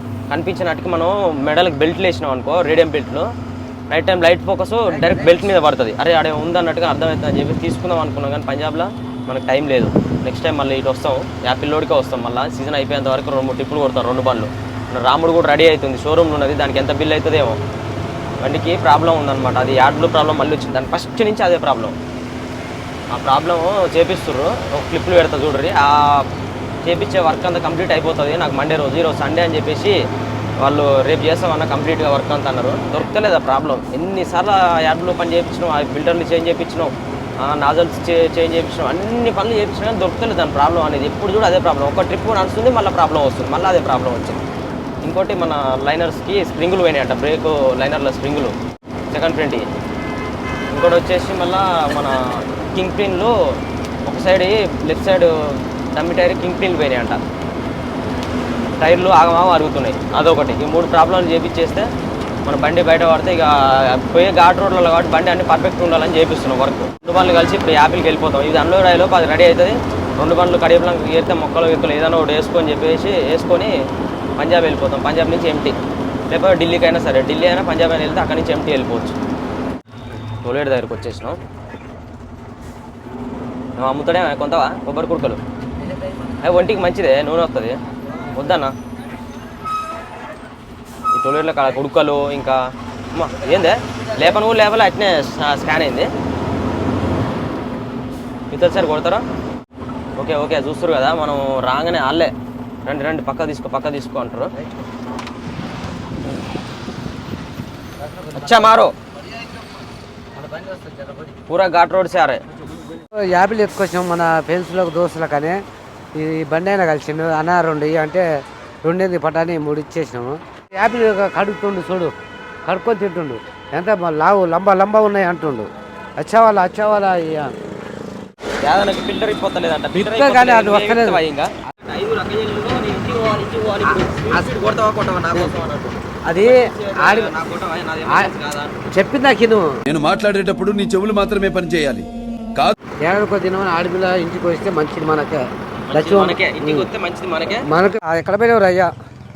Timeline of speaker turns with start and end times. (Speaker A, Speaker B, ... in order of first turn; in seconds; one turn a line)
Speaker A: 0.3-3.3
Speaker A: 3.9-17.6
Speaker B: 5.0-5.3
Speaker A: 18.4-21.9
Speaker A: 23.1-26.3
Speaker A: 26.8-30.0
Speaker A: 30.6-44.4
Speaker A: 45.0-48.5
Speaker A: 49.1-49.6
Speaker A: 50.7-52.2
Speaker A: 52.7-53.3
Speaker A: 54.0-57.2
Speaker A: 58.8-61.9
Speaker A: 62.4-73.7
Speaker A: 74.4-75.7
Speaker A: 76.3-79.2
Speaker A: 80.4-81.4
Speaker A: 83.8-85.4
Speaker B: 85.8-86.3
Speaker A: 86.4-87.8
Speaker A: 88.3-88.7
Speaker A: 91.1-92.6
Speaker A: 93.1-96.1
Speaker B: 93.3-94.3
Speaker A: 98.5-99.2
Speaker A: 100.2-102.3
Speaker A: 102.8-104.5
Speaker B: 108.0-108.8
Speaker A: 108.3-108.9
Speaker B: 110.3-111.3
Speaker A: 111.5-112.4
Speaker B: 113.1-115.6
Speaker B: 116.1-118.2
Speaker B: 118.8-122.1
Speaker B: 122.7-125.7
Speaker B: 126.2-127.5
Speaker A: 128.6-138.8
Speaker B: 129.9-131.2
Speaker B: 133.9-134.5
Speaker B: 136.2-137.3
Speaker B: 138.9-139.7
Speaker C: 139.9-142.7
Speaker B: 143.0-146.9
Speaker A: 145.9-147.6
Speaker B: 147.7-148.9